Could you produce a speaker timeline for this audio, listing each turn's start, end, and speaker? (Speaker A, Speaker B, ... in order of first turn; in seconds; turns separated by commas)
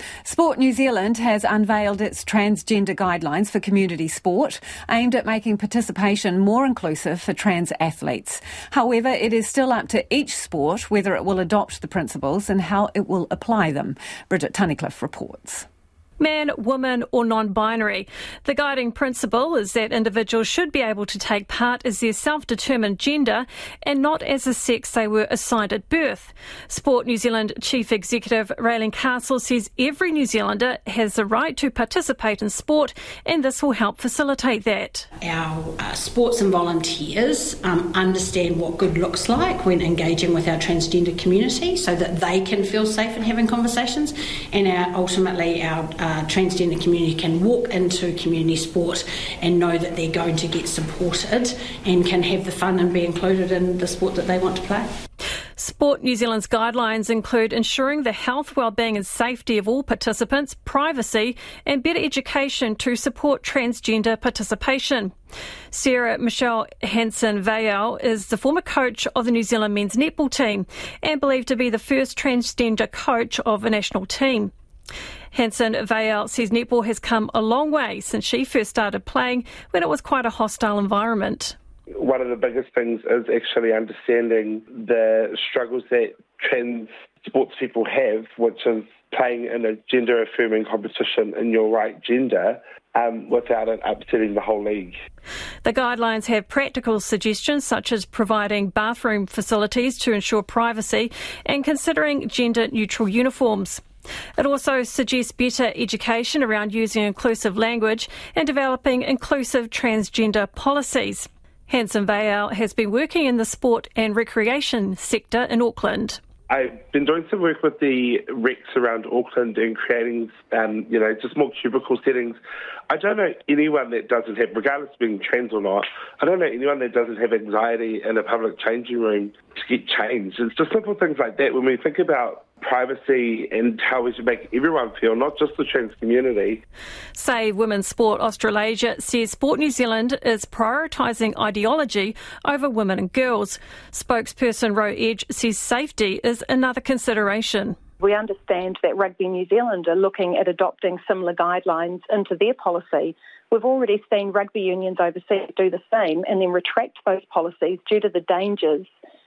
Speaker A: 0.2-15.7, Speaker B: 16.2-35.1, Speaker C: 35.2-54.9, Speaker B: 55.6-65.1, Speaker B: 65.7-74.5, Speaker B: 75.3-81.6, Speaker D: 82.0-95.0, Speaker B: 95.6-103.8, Speaker B: 104.4-116.2, Speaker D: 116.5-122.4, Speaker D: 122.9-136.6, Speaker B: 137.1-147.8, Speaker E: 148.0-158.9